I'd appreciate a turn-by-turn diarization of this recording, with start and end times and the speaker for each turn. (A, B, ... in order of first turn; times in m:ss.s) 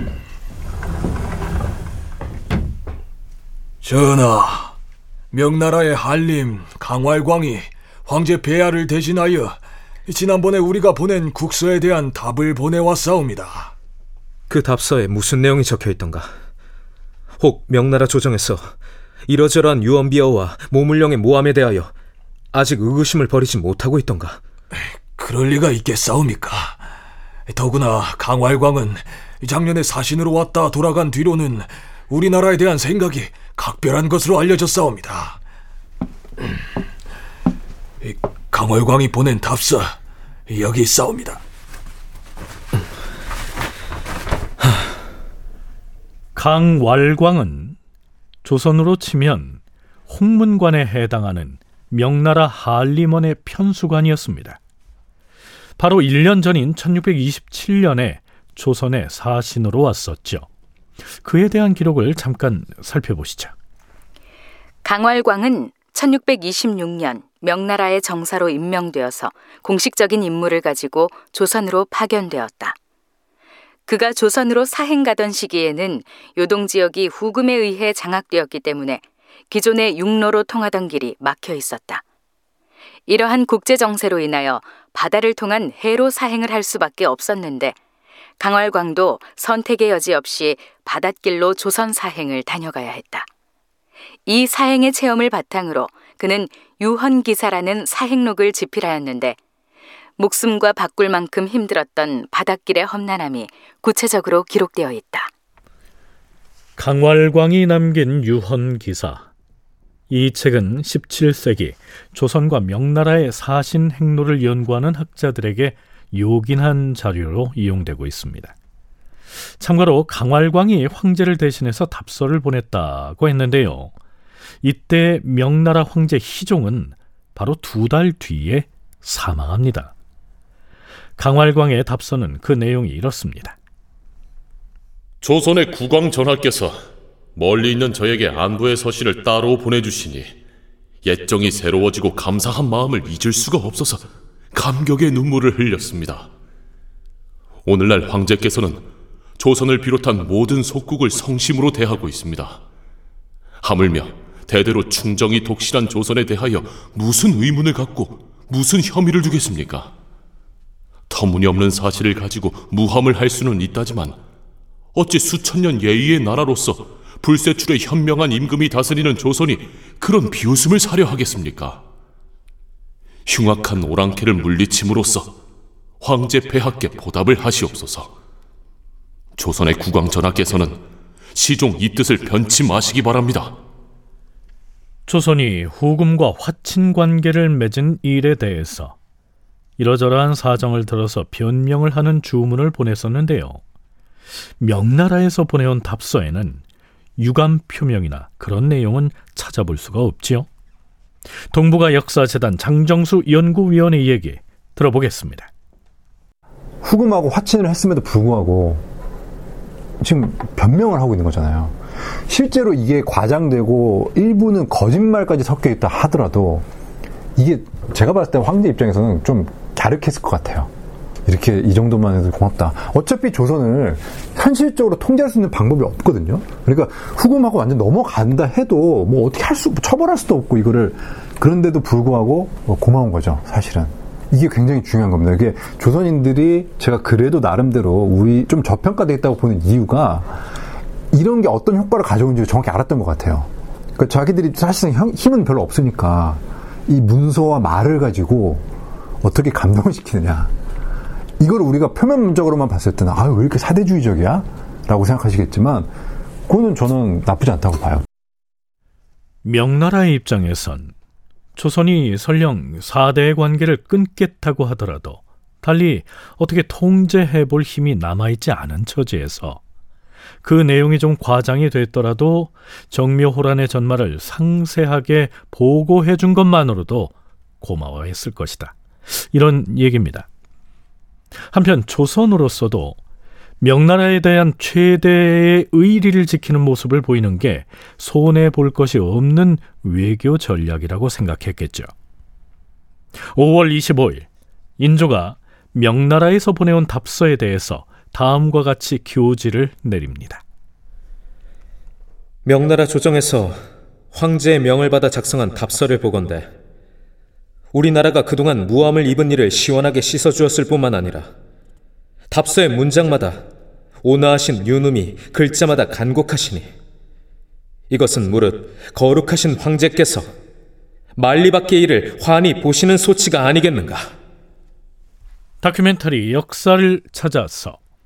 0:03.8-0:04.7 A
0:05.3-0:13.7 A
0:20.4-0:20.8 B
0:22.6-0:24.4 B
0:25.2-0:26.8 A
0:27.5-0:35.4 A
0:38.0-0:40.0 A
0:40.5-0:41.4 A
0:46.3-0:47.8 C
0:48.4-0:54.6 C
0:55.8-1:00.4 C
1:01.2-1:03.5 C
1:04.8-1:12.7 D
1:13.9-1:22.0 D
1:23.1-1:27.7 D
1:28.4-1:33.3 D
1:34.3-1:39.4 D
1:40.2-1:45.3 D
1:46.8-1:49.3 C
1:50.1-1:58.5 C
1:59.6-2:03.9 C
2:04.6-2:09.9 C
2:11.2-2:13.6 C
2:15.2-2:16.8 E
2:17.4-2:20.4 E
2:21.0-2:26.3 E
2:27.6-2:28.9 E
2:29.4-2:32.6 E
2:33.6-2:39.9 E
2:41.1-2:44.2 E
2:44.9-2:51.8 E
2:53.2-2:55.4 E
2:56.0-2:58.1 E
2:59.4-3:00.8 E
3:01.3-3:03.6 E
3:05.1-3:09.0 C
3:09.8-3:13.6 C
3:14.6-3:16.6 C
3:17.2-3:20.5 C
3:21.5-3:25.5 C
3:26.8-3:28.8 F
3:30.0-3:31.7 F
3:32.3-3:36.6 F
3:37.4-3:40.7 F
3:41.2-4:00.4 F
4:01.1-4:08.6 F
4:09.2-4:10.5 F
4:11.4-4:15.9 F
4:16.5-4:18.0 F
4:19.4-4:20.9 C
4:21.6-4:29.6 C
4:30.4-4:40.3 C
4:41.5-4:43.0 C
4:43.6-4:51.9 C
4:53.3-4:54.3 C
4:54.8-5:00.4 C
5:05.8-5:06.4 B
5:09.6-5:10.2 B
5:10.8-5:11.2 B
5:12.3-5:13.4 B
5:14.2-5:16.6 B
5:17.9-5:20.2 B
5:21.4-5:24.0 B
5:25.6-5:27.8 C